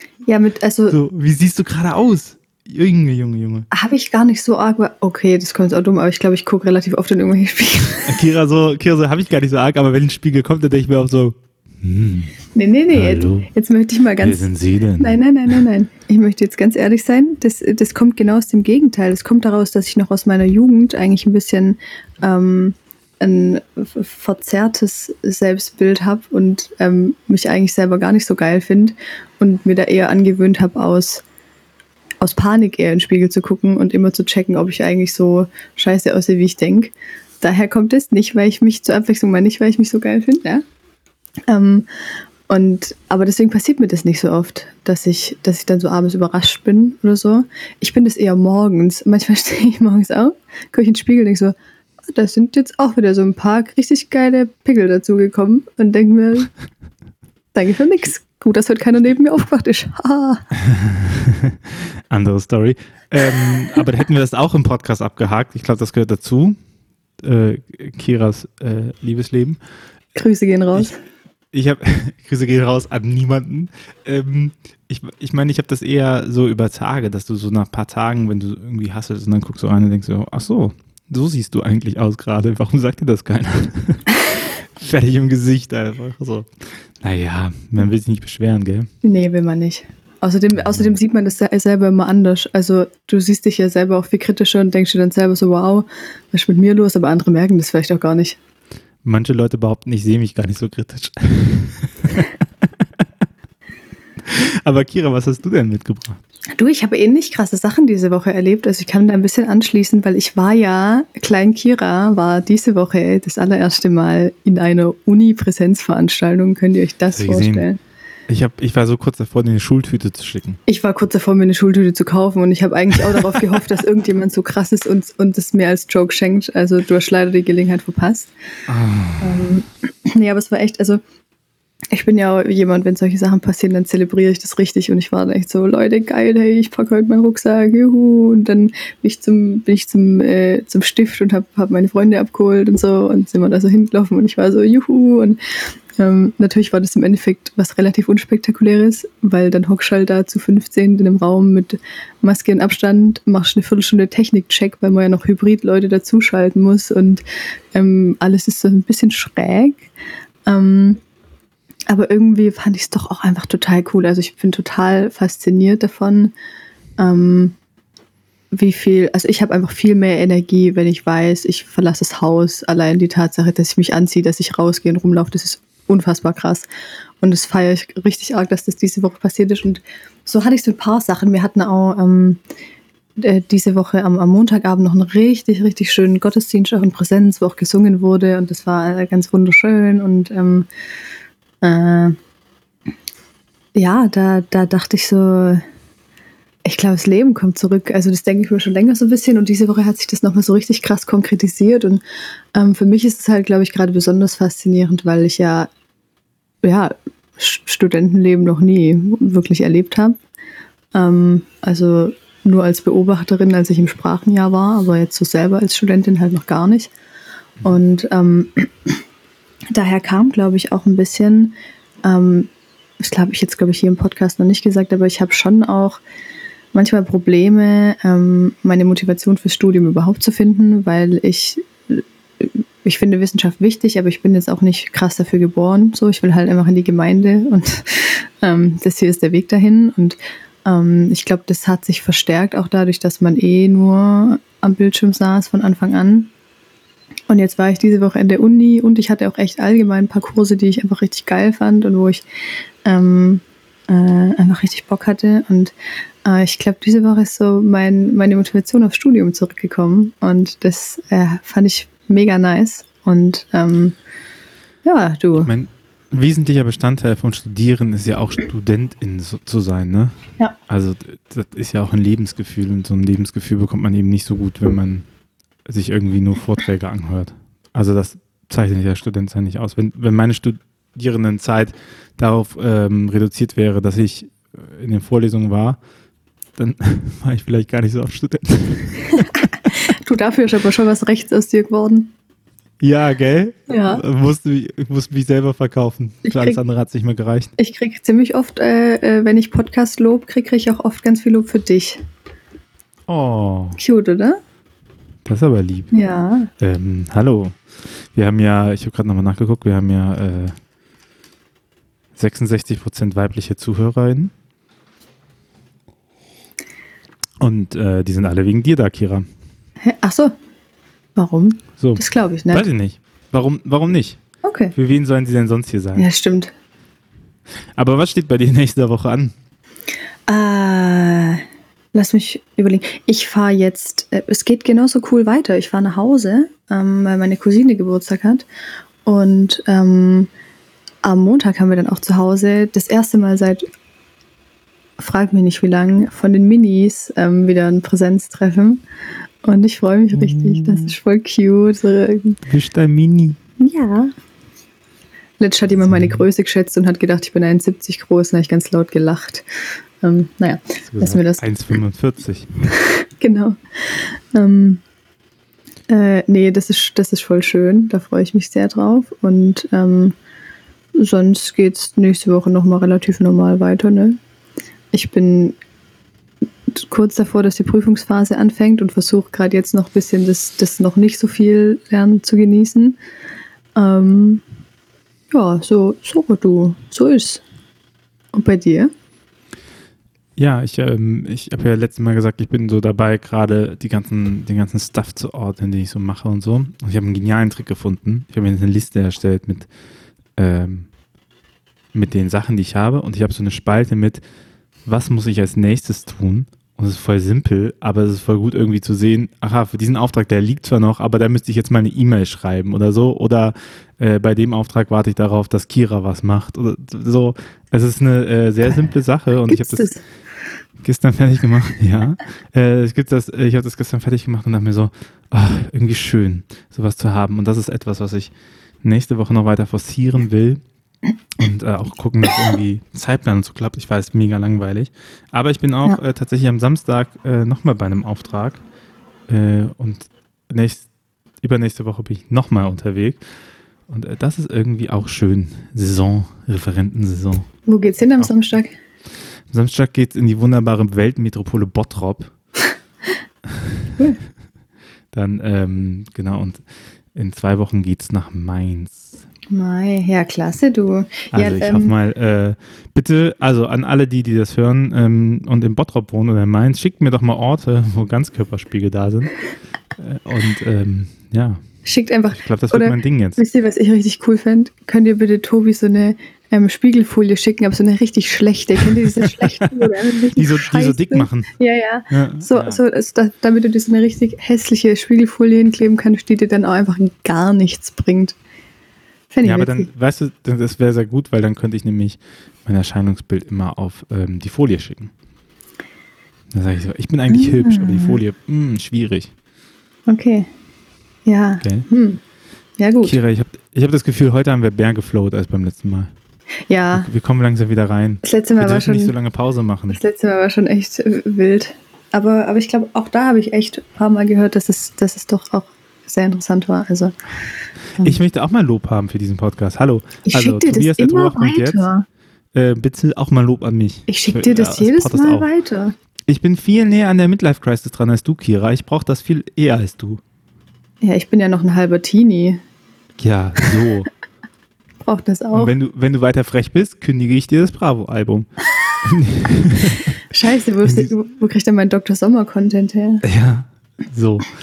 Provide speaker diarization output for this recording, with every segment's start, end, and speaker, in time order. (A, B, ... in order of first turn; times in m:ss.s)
0:00.3-0:01.0 A
0:00.9-0:03.7 B
0:03.7-0:08.2 A
0:08.1-0:12.3 B
0:12.5-0:31.2 A
0:12.9-0:13.5 B
0:14.2-0:15.2 B
0:32.2-0:40.6 A
0:41.5-0:41.9 A
0:42.5-0:51.5 A
0:52.1-0:56.5 A
0:57.5-1:00.4 A
1:00.7-1:06.6 B
1:07.2-1:09.6 B
1:10.2-1:11.0 A
1:11.5-1:24.2 B
1:24.8-1:26.5 B
1:27.0-1:28.9 B
1:29.0-1:38.4 A
1:39.0-1:42.4 B
1:44.2-1:46.2 B
1:46.5-1:57.8 A
1:57.1-1:57.7 B
1:58.3-2:00.6 B
2:00.7-2:08.3 A
2:08.7-2:09.5 B
2:09.2-2:11.0 A
2:11.9-2:25.4 A
2:26.0-2:37.2 A
2:37.7-2:39.9 A
2:40.5-2:41.0 A
2:41.9-2:46.3 A
2:47.0-2:47.6 A
2:48.5-2:56.7 A
2:57.2-3:02.4 A
3:03.2-3:10.7 A
3:11.6-3:12.2 A
3:13.8-3:15.6 A
3:16.6-3:22.0 A
3:22.6-3:25.7 A
3:26.6-3:30.2 A
3:30.9-3:36.9 A
3:37.6-3:39.0 A
3:39.7-3:42.5 A
3:43.0-3:46.0 A
3:46.7-4:06.3 A
4:07.3-4:12.2 A
4:12.8-4:24.0 A
4:24.8-4:25.5 A
4:25.4-4:30.2 B
4:30.7-4:35.1 B
4:35.7-4:45.8 B
4:46.6-4:49.4 B
4:49.4-4:52.1 A
4:52.8-4:57.5 B
4:53.7-4:54.0 A
4:56.3-4:56.6 A
4:57.6-5:02.0 A
5:03.1-5:03.8 B
5:03.8-5:04.4 A
5:05.3-5:05.9 B
5:05.9-5:06.5 A
5:06.6-5:10.6 B
5:12.2-5:14.3 B
5:17.4-5:19.3 B
5:19.8-5:20.3 A
5:21.2-5:22.7 A
5:21.8-5:24.2 B
5:24.4-5:24.8 A
5:24.8-5:26.1 B
5:26.0-5:26.5 A
5:27.8-5:29.3 B
5:30.3-5:31.4 A
5:31.9-5:38.5 A
5:39.0-5:40.3 A
5:41.0-5:43.6 A
5:45.0-5:48.8 A
5:49.4-5:52.4 A
5:50.1-5:51.0 B
5:52.5-5:53.4 B
5:53.6-5:54.1 A
5:55.4-5:59.5 A
5:55.8-5:56.2 B
6:00.0-6:01.5 A
6:00.9-6:02.5 B
6:03.2-6:04.8 A
6:05.9-6:10.2 A
6:11.0-6:14.2 A
6:14.9-6:15.6 A
6:16.7-6:23.0 A
6:23.8-6:24.4 A
6:25.3-6:27.4 A
6:28.3-6:28.9 A
6:30.4-6:39.7 B
6:40.4-6:40.9 B
6:41.9-6:44.2 B
6:44.9-6:59.9 B
6:59.5-7:00.0 A
7:00.8-7:08.3 B
7:08.8-7:10.6 B
7:11.4-7:18.6 B
7:19.3-7:20.9 B
7:21.4-7:23.2 B
7:23.9-7:27.5 B
7:27.7-7:28.8 A
7:29.5-7:32.3 B
7:35.1-7:36.6 B
7:37.2-7:39.1 B
7:39.5-7:41.9 A
7:41.3-7:49.4 B
7:50.0-7:51.6 B
7:51.8-8:08.4 A
7:52.4-7:53.4 B
8:00.3-8:01.5 B
8:02.1-8:02.8 B
8:09.3-8:09.9 A
8:09.4-8:15.1 B
8:16.5-8:19.3 B
8:17.3-8:18.2 A
8:20.1-8:20.5 A
8:21.3-8:22.2 A
8:21.6-8:21.9 B
8:22.8-8:23.2 A
8:23.0-8:26.1 B
8:26.7-8:27.1 A
8:26.9-8:30.0 B
8:28.2-8:29.2 A
8:29.9-8:37.2 A
8:38.0-8:41.9 B
8:40.3-8:42.1 A
8:42.6-8:45.5 B
8:44.1-8:46.0 A
8:46.3-8:50.2 B
8:51.0-8:52.6 A
8:53.2-8:54.1 B
8:55.1-8:55.7 A
8:55.5-8:58.5 B
8:59.0-9:00.1 B
9:00.3-9:03.2 A
9:00.8-9:01.1 B
9:03.2-9:04.5 B